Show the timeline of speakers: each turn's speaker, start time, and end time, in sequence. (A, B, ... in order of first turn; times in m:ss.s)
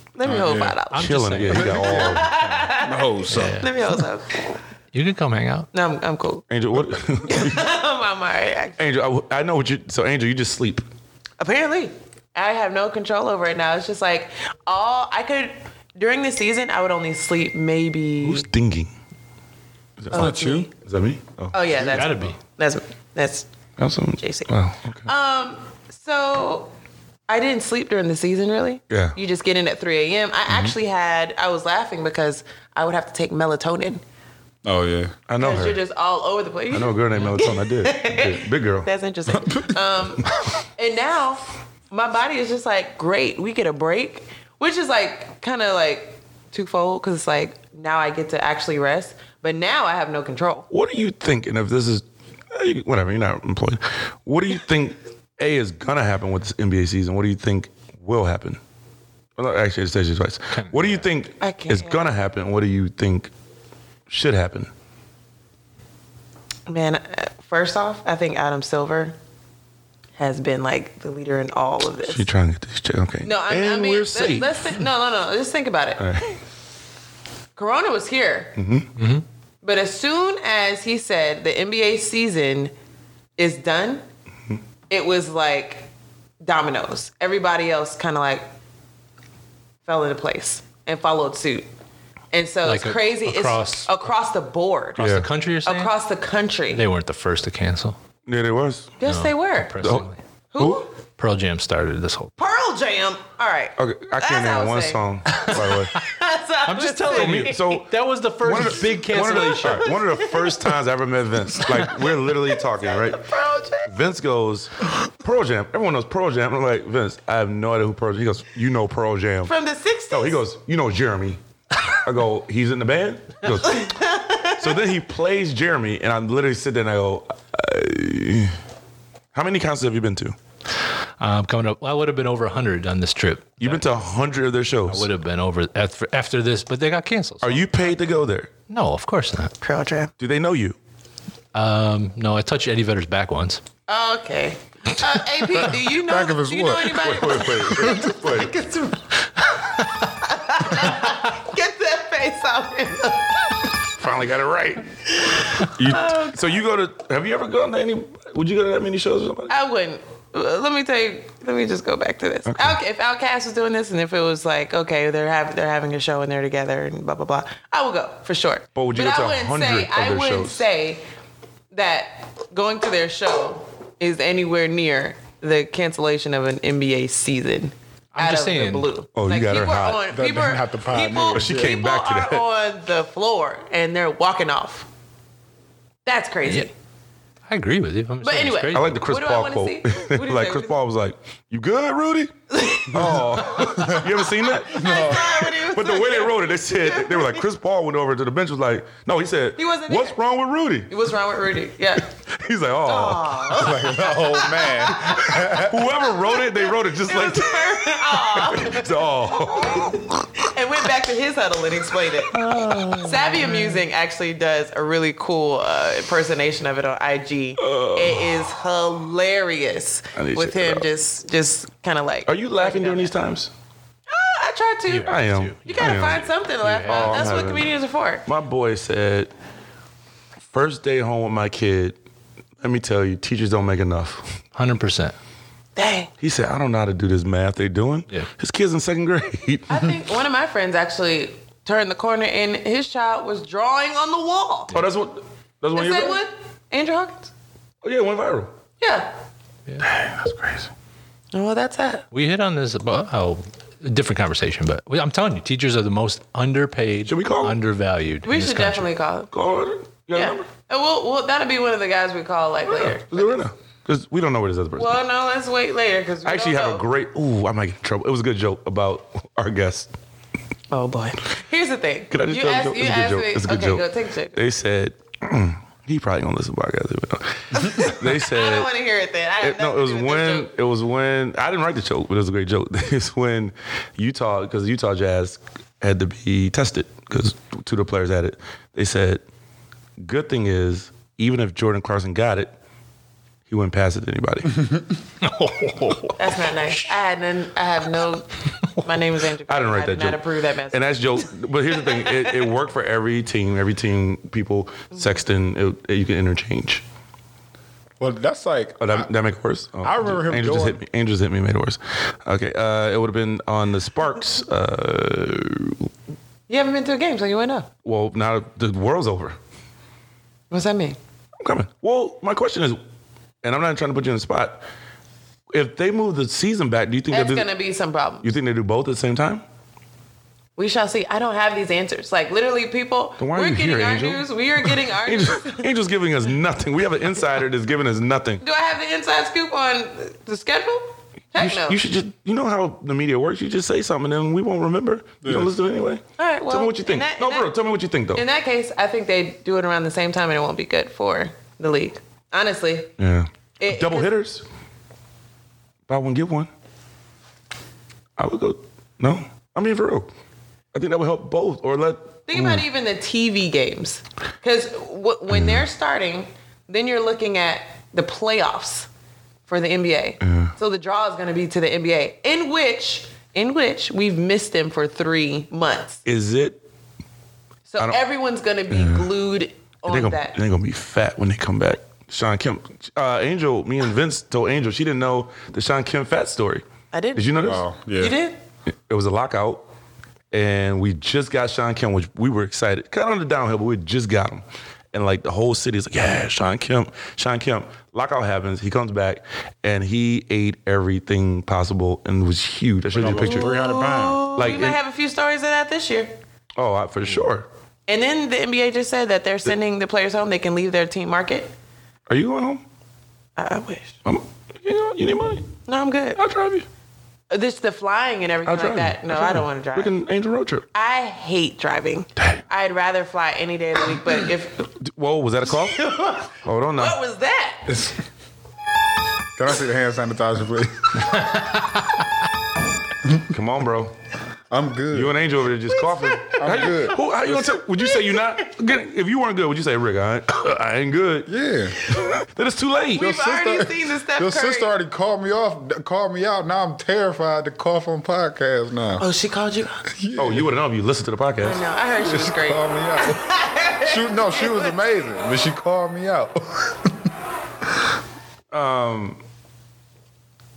0:00.2-0:01.1 A
0:00.2-0:00.8 B
0:00.9-0:02.1 C
0:01.0-0:02.4 D
0:01.5-0:03.6 B
0:01.8-0:04.4 A
0:03.3-0:03.7 C
0:04.9-0:05.7 C
0:05.7-0:06.5 A
0:06.5-0:07.6 D
0:07.3-0:08.8 A
0:08.8-0:10.8 D
0:11.4-0:18.5 A
0:18.2-0:18.9 D
0:20.0-0:22.3 D
0:20.1-0:20.7 B
0:20.1-0:20.7 A
0:21.5-0:23.5 A
0:21.7-0:22.4 C
0:23.8-0:25.1 D
0:24.2-0:24.5 A
0:25.1-0:26.7 A
0:27.3-0:34.0 A
0:28.9-0:29.2 D
0:30.5-0:30.8 D
0:34.6-0:35.2 B
0:35.3-0:35.8 D
0:35.4-0:50.7 A
0:36.7-0:38.9 D
0:39.3-0:39.8 B
0:50.7-0:58.6 D
0:59.4-1:03.3 D
1:00.6-1:01.1 C
1:01.4-1:02.1 A
1:04.1-1:04.7 D
1:06.7-1:09.2 A
1:10.2-1:12.3 A
1:12.0-1:14.7 D
1:13.2-1:16.0 A
1:16.0-1:16.4 D
1:17.6-1:18.6 A
1:18.6-1:18.9 D
1:19.0-1:19.2 C
1:19.6-1:22.7 A
1:23.4-1:24.0 A
1:24.9-1:25.9 A
1:26.4-1:28.4 A
1:29.9-1:31.7 A
1:32.3-1:35.0 A
1:32.6-1:34.0 C
1:35.0-1:35.9 C
1:35.0-1:35.3 D
1:35.6-1:36.8 A
1:36.7-1:38.0 C
1:38.3-1:39.0 D
1:39.0-1:39.7 A
1:39.1-1:40.2 C
1:39.8-1:40.1 D
1:40.5-1:40.9 A
1:40.6-1:40.8 D
1:41.2-1:42.3 C
1:42.4-1:45.0 A
1:43.8-1:45.9 D
1:45.3-1:45.8 C
1:46.0-1:47.7 A
1:46.7-1:50.0 C
1:47.1-1:47.9 D
1:48.4-1:53.2 D
1:49.5-1:50.5 A
1:52.8-1:53.9 A
1:53.9-1:59.5 D
1:59.4-2:00.4 A
2:00.1-2:04.0 D
2:03.6-2:04.9 A
2:04.6-2:08.6 D
2:09.3-2:10.4 D
2:11.2-2:13.8 C
2:13.6-2:15.1 D
2:14.9-2:17.6 C
2:17.4-2:18.5 D
2:18.7-2:19.5 C
2:19.6-2:20.1 A
2:20.2-2:20.8 D
2:21.5-2:23.6 C
2:23.9-2:29.0 A
2:26.0-2:27.3 B
2:26.9-2:28.6 D
2:29.6-2:33.7 A
2:34.0-2:34.9 D
2:35.2-2:36.4 A
2:35.4-2:39.5 D
2:39.5-2:51.0 A
2:42.5-2:42.8 D
2:48.8-2:50.6 D
2:51.7-3:04.9 A
2:58.1-2:58.9 C
2:59.1-3:00.1 D
3:00.1-3:01.8 B
3:01.3-3:02.5 D
3:06.1-3:06.7 A
3:07.5-3:09.0 C
3:08.2-3:10.8 A
3:08.7-3:12.4 D
3:12.5-3:13.9 A
3:12.9-3:20.9 D
3:13.0-3:14.1 B
3:14.7-3:17.4 A
3:14.7-3:15.4 B
3:19.6-3:20.2 A
3:20.9-3:22.1 A
3:22.3-3:23.7 D
3:22.8-3:25.6 A
3:23.5-3:25.9 B
3:25.4-3:30.2 D
3:26.6-3:28.9 A
3:30.4-3:43.1 A
3:32.3-3:33.8 D
3:37.6-3:38.4 D
3:40.2-3:40.9 D
3:42.3-3:43.5 D
3:44.1-3:48.2 A
3:44.9-3:47.4 C
3:45.1-3:46.2 D
3:46.8-3:47.7 D
3:48.3-3:49.3 D
3:50.5-3:52.0 D
3:52.6-3:54.4 D
3:54.6-3:55.2 C
3:55.8-3:56.1 A
3:56.2-3:59.9 D
3:59.7-4:04.7 A
4:04.7-4:06.2 D
4:05.8-4:07.3 A
4:07.8-4:08.5 D
4:08.8-4:09.1 A
4:09.8-4:10.7 D
4:11.3-4:12.1 A
4:12.1-4:18.9 C
4:17.1-4:17.6 D
4:18.2-4:19.3 A
4:19.3-4:20.4 D
4:20.1-4:23.4 A
4:22.7-4:25.0 D
4:24.8-4:26.8 A
4:26.2-4:29.9 D
4:30.7-4:34.4 A
4:32.1-4:38.7 D
4:37.5-4:40.5 A
4:39.4-4:49.2 D
4:50.0-4:52.5 D
4:53.5-4:54.7 D
4:55.2-4:56.2 C
4:56.2-5:01.0 A
4:59.5-5:06.8 D
5:01.8-5:02.4 A
5:08.0-5:09.1 B
5:08.8-5:15.9 D
5:09.8-5:10.8 B
5:16.5-5:17.7 A
5:17.8-5:19.4 D
5:20.5-5:21.0 A
5:21.4-5:22.8 D
5:23.4-5:24.6 D
5:25.5-5:27.5 D
5:27.1-5:28.3 A
5:28.2-5:29.4 D
5:30.6-5:35.7 A
5:33.2-5:38.4 D
5:38.4-5:41.8 A
5:41.4-5:48.2 D
5:45.2-5:45.6 B
5:46.2-5:47.5 A
5:48.2-5:52.9 A
5:53.0-5:54.4 D
5:53.6-5:54.1 A
5:55.9-5:56.5 D
5:58.2-6:00.1 D
6:00.7-6:02.6 D
6:02.3-6:08.9 A
6:05.3-6:05.6 D
6:09.5-6:16.0 A
6:10.2-6:10.5 D
6:16.0-6:16.6 D
6:17.7-6:20.3 A
6:18.7-6:19.1 D
6:19.9-6:27.6 D
6:26.9-6:28.4 A
6:27.4-6:28.2 B
6:28.7-6:29.6 D
6:30.3-6:43.5 D
6:42.9-6:44.2 B
6:43.1-6:46.1 A
6:44.4-6:44.8 D
6:46.6-6:47.5 D
6:47.9-6:51.5 A
6:52.1-6:52.6 D
6:53.4-6:54.0 A
6:54.0-6:55.5 D
6:55.7-6:56.2 A
6:56.2-6:56.7 D
6:57.3-6:59.9 A
6:58.4-7:00.7 D
7:00.7-7:04.7 A
7:04.8-7:05.8 D
7:05.5-7:07.7 A
7:06.4-7:07.0 D
7:07.7-7:08.0 B
7:09.4-7:11.2 B
7:13.3-7:13.9 D
7:14.5-7:15.2 B
7:14.9-7:21.3 D
7:16.3-7:17.0 B
7:21.3-7:21.8 B
7:22.0-7:23.1 D
7:23.0-7:24.7 A
7:23.0-7:29.0 B
7:29.0-7:29.9 A
7:29.9-7:30.5 B
7:30.2-7:31.7 D
7:31.4-7:34.8 A
7:32.0-7:33.2 B
7:33.8-7:36.9 B
7:38.5-7:39.2 D